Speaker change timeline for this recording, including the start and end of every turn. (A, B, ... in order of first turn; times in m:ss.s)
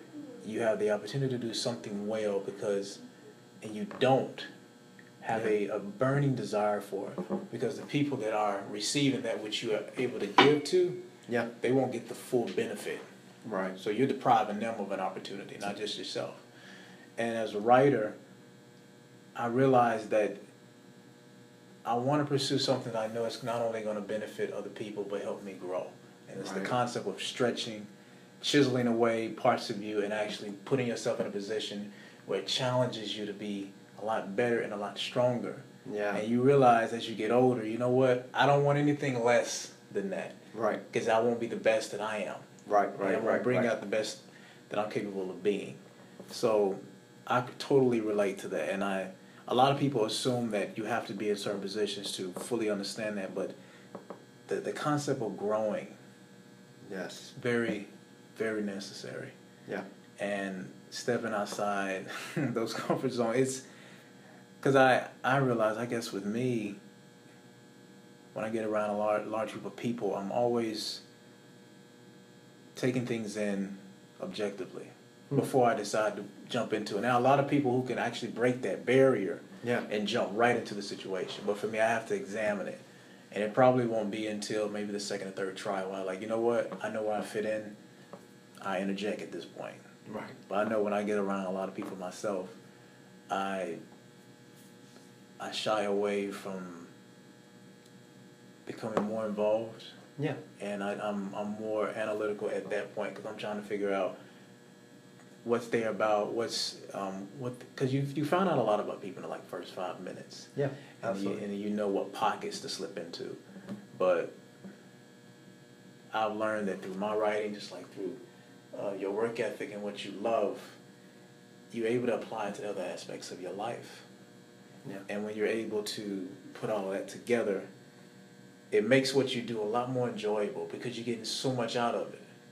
0:00.4-0:03.0 A
0:03.6-0:04.5 A
0:05.2-0:11.0 A
0:11.6-0:13.0 A
0:13.4-0:13.8 B
0:13.8-0:16.4 A
0:17.2-0:18.2 A
0:19.4-0:20.4 A
0:21.8-0:27.9 A
0:26.4-0:26.7 B
0:28.4-0:40.4 A
0:35.9-0:36.2 B
0:40.5-0:40.8 B
0:40.9-0:42.5 A
0:42.7-0:43.7 B
0:43.0-0:53.5 A
0:54.5-0:56.0 A
0:56.9-0:57.3 B
0:57.3-0:59.4 A
1:00.2-1:03.6 A
1:04.6-1:06.8 A
1:08.3-1:11.0 A
1:12.8-1:27.8 A
1:28.6-1:29.8 A
1:30.1-1:30.4 B
1:30.5-1:32.6 A
1:33.3-1:33.8 A
1:35.4-1:36.9 A
1:38.7-1:40.0 A
1:40.6-1:44.2 A
1:45.4-1:50.5 A
1:50.6-1:51.4 B
1:51.0-1:53.4 A
1:53.9-1:54.3 A
1:56.1-1:58.2 A
1:58.7-2:00.8 A
2:01.7-2:04.1 A
2:05.1-2:07.7 A
2:08.7-2:12.2 A